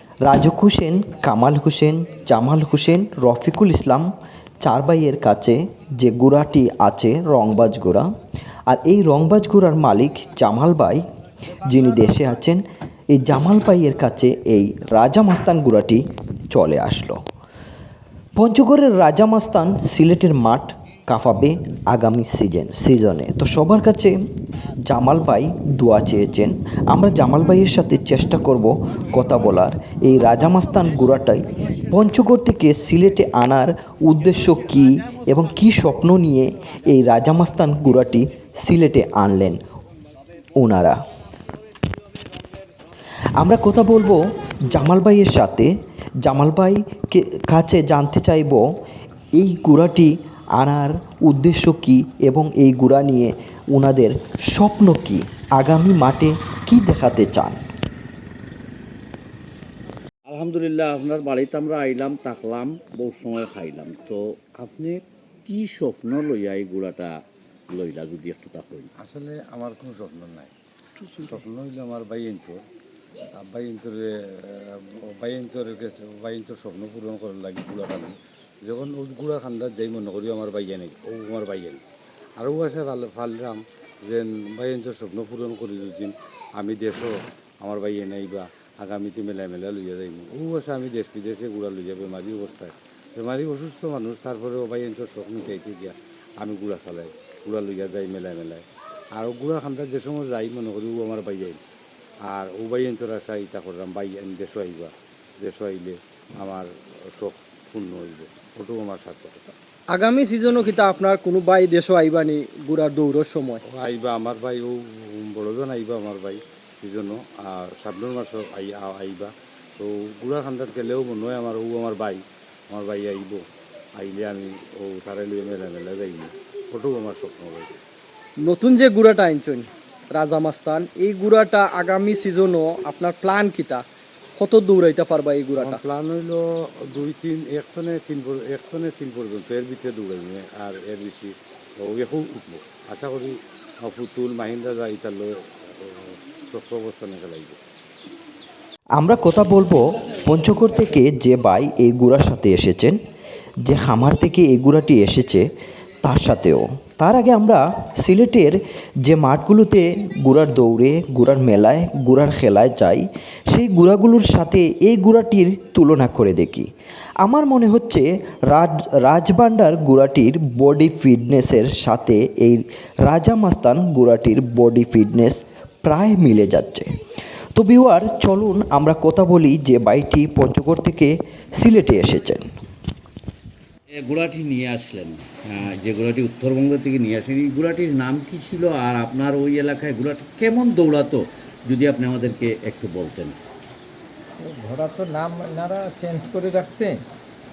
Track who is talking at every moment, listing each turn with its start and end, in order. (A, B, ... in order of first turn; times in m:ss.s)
0:00.2-0:04.1 A
0:04.6-0:08.1 A
0:08.7-0:11.0 A
0:11.7-0:12.6 A
0:13.1-0:17.2 A
0:18.4-0:24.2 A
0:24.9-0:39.6 A
0:40.6-0:41.0 A
0:43.4-0:45.7 A
0:46.2-0:48.6 A
0:49.4-0:57.6 A
1:00.2-1:07.1 B
1:07.7-1:08.9 B
1:09.0-1:10.5 C
1:11.2-1:12.6 C
1:13.3-1:21.8 C
1:22.4-1:38.6 C
1:39.2-1:41.6 C
1:42.3-1:49.4 C
1:49.9-1:53.6 D
1:53.7-2:03.4 C
2:04.0-2:07.7 C
2:08.4-2:13.8 D
2:14.4-2:15.8 D
2:15.5-2:27.6 C
2:29.0-2:33.0 A
2:33.6-2:35.4 A
2:36.0-2:46.7 A
2:47.2-2:56.9 A
2:57.6-3:02.4 A
3:03.9-3:13.3 B
3:14.4-3:17.0 E